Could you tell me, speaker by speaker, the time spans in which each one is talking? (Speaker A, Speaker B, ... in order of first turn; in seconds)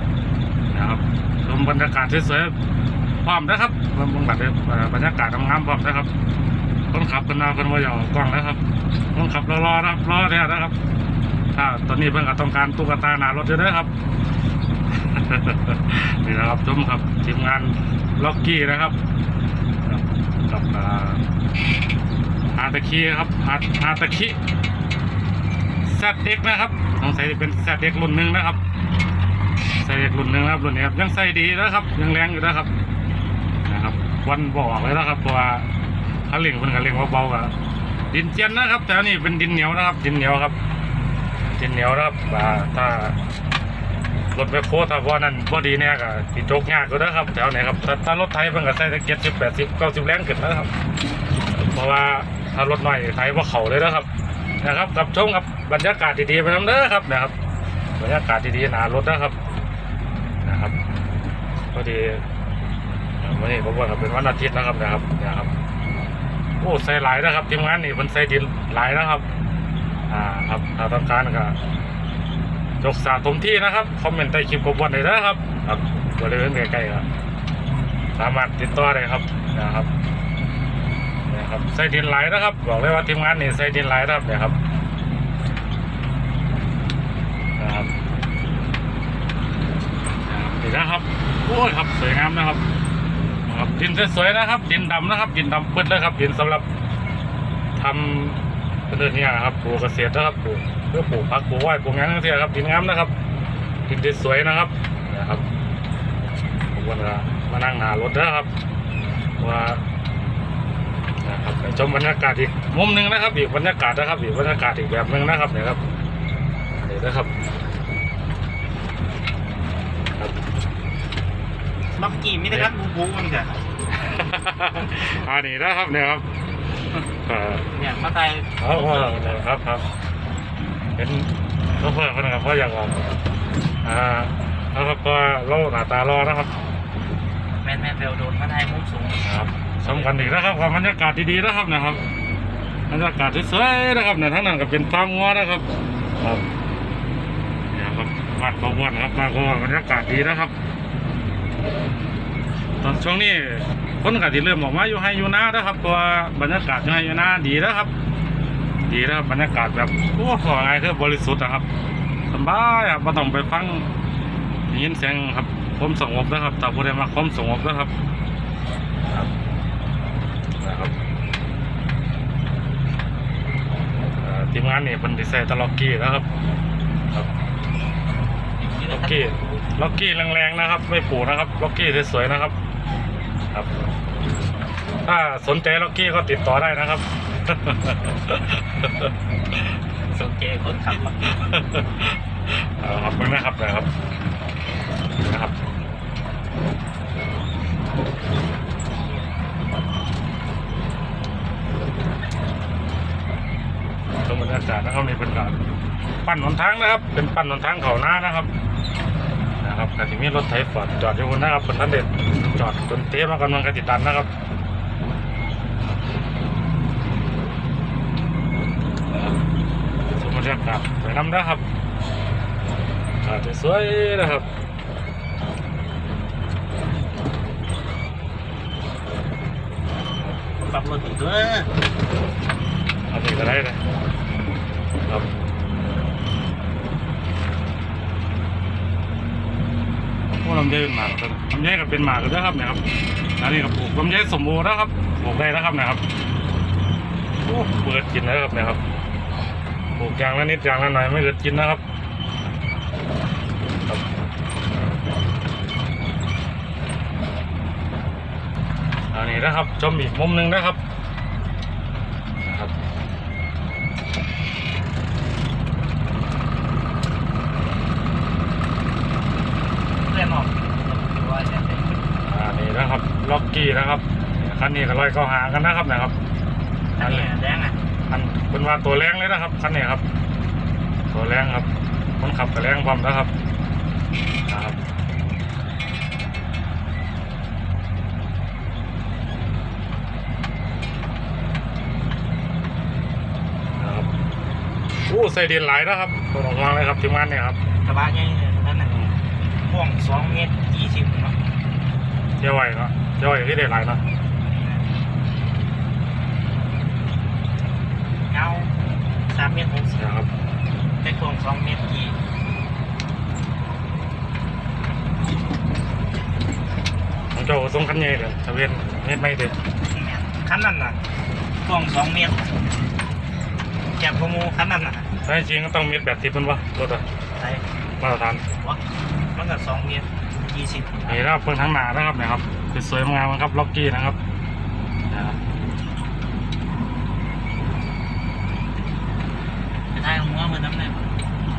Speaker A: 0.7-2.5, 3.2-6.1, 6.9-8.6, 9.1-10.8, 11.6-13.9, 14.9-19.0, 19.9-21.2, 22.5-24.4, 25.9-28.6, 29.8-32.7, 33.6-35.7, 36.3-37.5, 38.1-40.6, 41.5-43.2, 44.3-50.7, 51.5-54.1, 54.6-57.3, 58.0-59.4, 60.4-60.8, 61.7-62.2, 63.2-65.5, 66.6-69.3, 70.1-71.6, 72.8-77.1, 78.2-79.9, 81.3-84.6, 87.6-87.9, 90.3-92.6, 93.5-96.7, 97.8-103.1, 103.9-105.5, 106.7-108.5, 109.4-109.8, 111.2-115.8, 116.8-117.3, 124.0-126.3, 127.1-127.7, 128.6-129.8, 131.0-132.9, 133.8-136.5, 139.2-142.0, 142.9-145.7, 147.7-150.5, 152.8-157.9, 158.9-161.7, 162.3-163.9, 164.7-167.9, 170.6-170.9, 174.2-176.3, 178.9-182.6, 185.1-189.1, 191.3-193.9, 195.2-195.6, 204.2-205.6, 206.2-208.5, 209.6-214.3, 220.1-221.7, 223.2-224.5, 233.1-233.8, 240.4-242.8, 243.4-246.0, 247.4-248.8, 250.0-251.8, 259.1-260.8, 262.4-262.7, 272.2-276.1, 277.0-277.3, 278.1-280.0, 281.1-281.7, 282.2-283.3, 284.5-284.8, 293.8-294.1, 295.1-297.6, 302.4-304.0, 310.0-310.3, 317.3-319.6, 325.2-327.1, 328.0-328.4, 331.1-334.2, 335.1-335.4
Speaker B: 121.9-123.6, 127.7-129.4, 137.6-140.2, 178.7-179.7, 190.1-191.3, 230.6-231.7, 270.0-272.1, 277.0-277.8, 297.8-301.4, 304.5-304.9, 308.3-308.7, 309.3-310.1, 311.0-312.2, 319.9-321.0, 321.6-322.6, 323.9-325.1, 327.4-327.6, 328.5-328.8, 329.3-331.2, 339.9-341.1